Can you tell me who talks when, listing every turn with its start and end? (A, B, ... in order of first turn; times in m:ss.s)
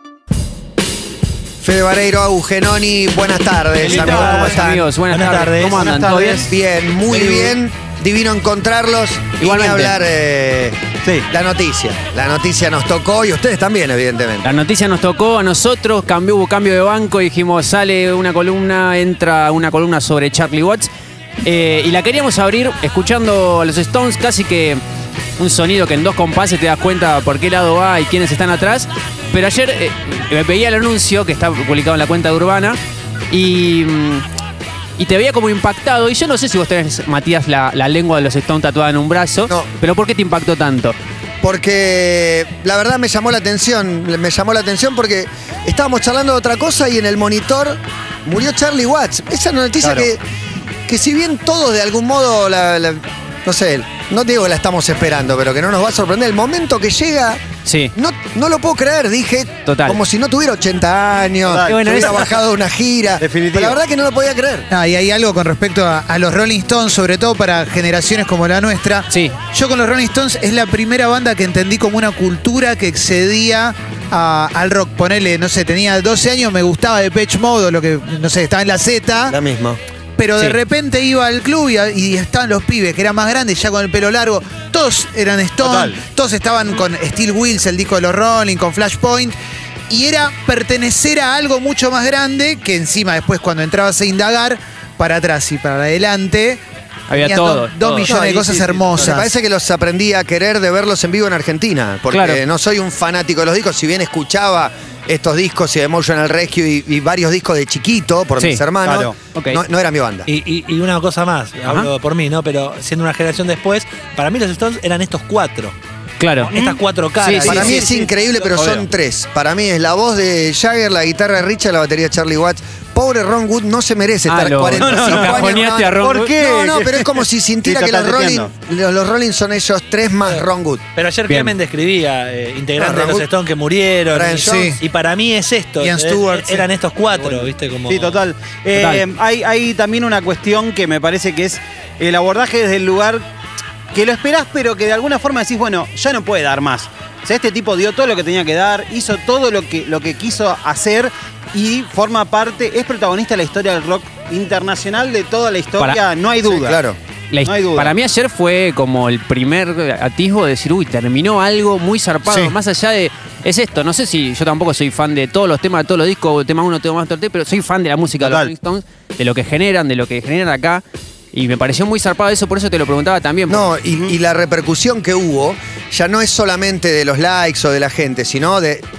0:01.6-0:04.8 A
0:03.8-0:06.5 B
0:03.9-0:06.0 C
0:03.9-0:04.3 D
0:05.7-0:06.5 D
0:06.5-0:10.8 A
0:07.1-0:07.5 B
0:09.4-0:10.0 B
0:11.3-0:14.5 A
0:14.4-0:20.9 B
0:21.4-0:24.8 B
0:25.4-0:32.8 B
0:33.3-0:34.2 B
0:35.0-0:41.0 B
0:41.4-0:50.2 A
0:49.8-0:50.1 D
0:50.9-0:57.4 A
0:57.6-0:57.9 B
0:58.0-1:04.7 A
0:59.7-1:00.0 B
1:01.4-1:02.2 D
1:01.7-1:02.2 B
1:03.2-1:03.8 D
1:04.7-1:19.4 E
1:09.1-1:09.3 B
1:19.3-1:19.8 A
1:20.2-1:29.3 E
1:25.6-1:26.0 D
1:29.9-1:36.6 E
1:37.1-1:39.0 B
1:37.1-1:39.3 E
1:38.9-1:50.3 A
1:42.1-1:42.4 B
1:48.8-1:49.2 D
1:49.3-1:49.6 B
1:50.3-1:55.8 C
1:56.2-1:56.5 B
1:56.4-1:57.9 C
1:56.5-1:56.8 D
1:57.2-1:57.8 B
1:57.4-2:10.8 A
1:57.5-1:58.8 D
2:04.3-2:06.3 B
2:04.8-2:08.5 D
2:11.0-2:18.2 C
2:11.3-2:11.5 B
2:12.8-2:13.3 A
2:14.1-2:14.8 A
2:14.4-2:14.8 E
2:15.8-2:16.7 E
2:17.9-2:23.2 D
2:18.7-2:19.0 B
2:23.9-2:36.8 D
2:36.5-2:37.0 A
2:37.3-2:50.8 B
2:37.4-2:37.9 D
2:42.3-2:42.5 A
2:48.2-2:48.5 D
2:51.3-2:53.7 B
2:53.5-2:58.8 A